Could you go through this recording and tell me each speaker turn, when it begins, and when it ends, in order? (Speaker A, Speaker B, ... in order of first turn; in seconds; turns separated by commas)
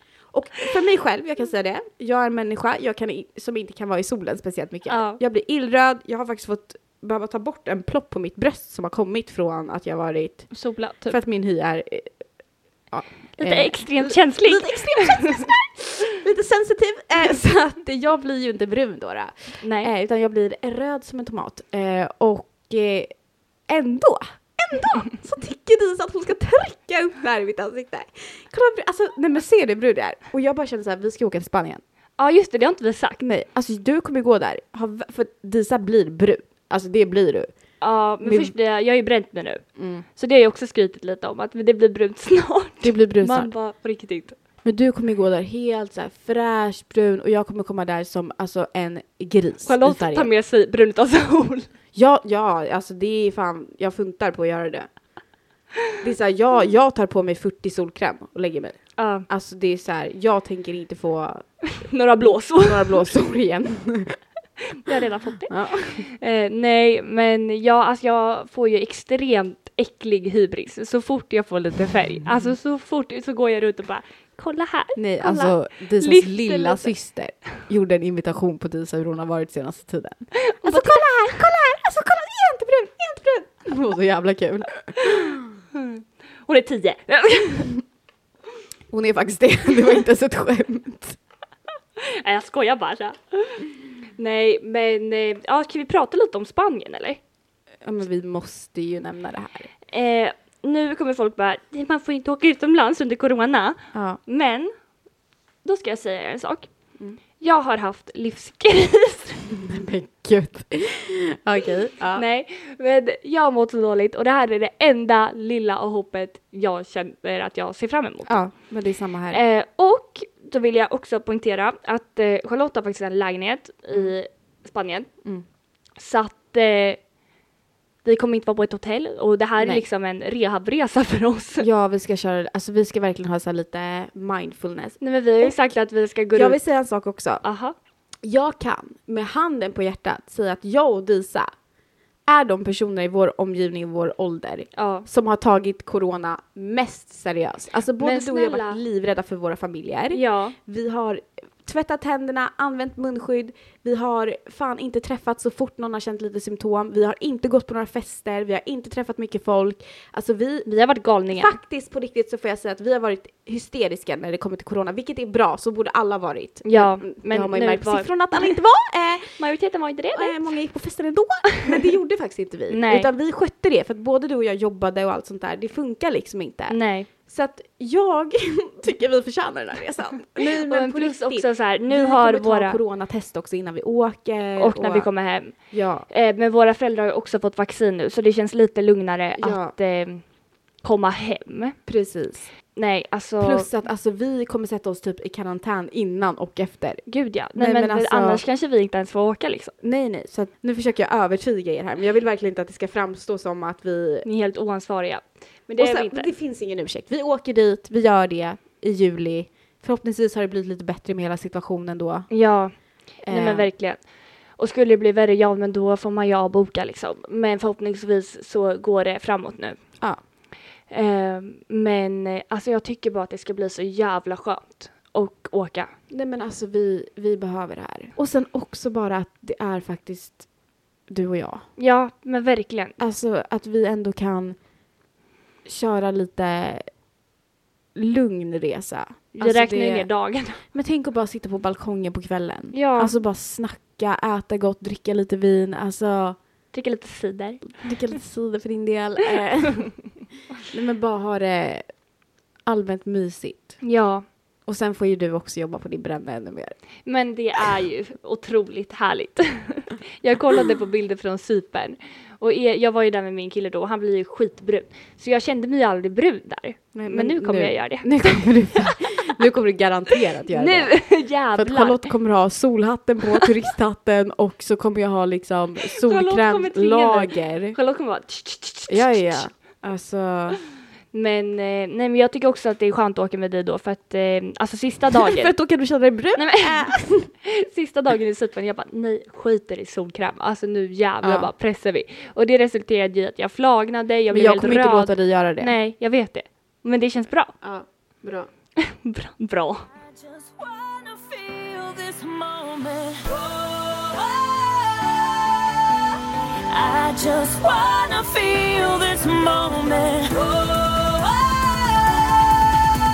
Speaker A: 0.3-10.5, Speaker B: 4.9-5.2, Speaker B: 10.5-11.2, Speaker A: 11.1-12.1, Speaker A: 12.9-23.1, Speaker B: 13.4-15.5, Speaker B: 19.6-19.9, Speaker A: 23.7-31.8, Speaker B: 32.2-33.2, Speaker A: 33.2-37.5, Speaker B: 37.8-39.6, Speaker A: 38.2-38.5, Speaker A: 39.8-40.0, Speaker B: 40.1-44.4, Speaker A: 42.8-43.5, Speaker A: 44.6-50.3, Speaker B: 49.6-51.7, Speaker A: 51.9-54.9, Speaker A: 56.0-61.5, Speaker B: 59.0-59.3, Speaker B: 61.8-63.0, Speaker A: 62.5-64.2, Speaker B: 64.8-76.9, Speaker A: 65.5-66.1, Speaker A: 75.0-85.5, Speaker B: 80.4-81.4, Speaker B: 85.8-87.7, Speaker A: 88.9-91.2, Speaker B: 92.0-97.2, Speaker A: 97.8-99.7, Speaker B: 99.9-104.7, Speaker A: 103.9-104.2, Speaker B: 105.6-106.7, Speaker B: 107.4-109.5, Speaker A: 109.5-112.2, Speaker B: 112.1-118.5, Speaker A: 118.3-119.4, Speaker B: 119.3-125.1, Speaker B: 126.0-127.0, Speaker B: 128.1-131.7, Speaker A: 129.6-129.9, Speaker A: 131.6-135.6, Speaker B: 135.0-136.6, Speaker A: 136.3-137.4, Speaker B: 137.4-137.7, Speaker A: 138.2-141.5, Speaker A: 142.3-160.7, Speaker B: 144.7-145.1, Speaker B: 148.0-148.8, Speaker B: 150.1-150.6, Speaker B: 160.7-161.6, Speaker A: 161.3-169.4, Speaker B: 166.6-168.5, Speaker B: 169.4-170.5, Speaker A: 170.1-186.1, Speaker B: 172.7-173.1, Speaker B: 176.7-177.1, Speaker B: 180.4-182.8, Speaker B: 184.6-185.6, Speaker B: 186.1-190.2, Speaker A: 189.4-189.7, Speaker B: 190.8-191.8, Speaker A: 191.9-192.5, Speaker B: 192.8-193.7, Speaker A: 193.4-198.4, Speaker B: 197.1-199.7, Speaker A: 199.8-204.2, Speaker B: 204.2-206.3, Speaker A: 205.8-212.3, Speaker B: 212.3-214.1, Speaker A: 213.2-213.7, Speaker B: 214.6-219.8, Speaker B: 220.9-225.9, Speaker A: 226.1-230.4, Speaker A: 231.1-231.7, Speaker B: 231.8-233.0, Speaker A: 233.0-234.6, Speaker A: 235.7-236.9, Speaker A: 237.9-240.1, Speaker B: 239.4-240.6, Speaker A: 240.6-246.4, Speaker B: 242.7-243.2, Speaker B: 246.7-248.1, Speaker A: 247.8-250.1, Speaker A: 250.7-251.8, Speaker A: 252.7-253.8, Speaker B: 253.8-254.2, Speaker A: 254.7-256.8, Speaker B: 257.1-269.1, Speaker A: 266.9-277.8, Speaker B: 270.5-272.1, Speaker B: 275.9-279.5, Speaker A: 278.9-280.6, Speaker B: 281.1-285.5, Speaker A: 285.1-287.3, Speaker B: 286.4-297.6, Speaker A: 291.2-291.5, Speaker A: 294.3-295.7, Speaker A: 297.6-298.5, Speaker B: 298.8-299.9, Speaker C: 300.0-312.9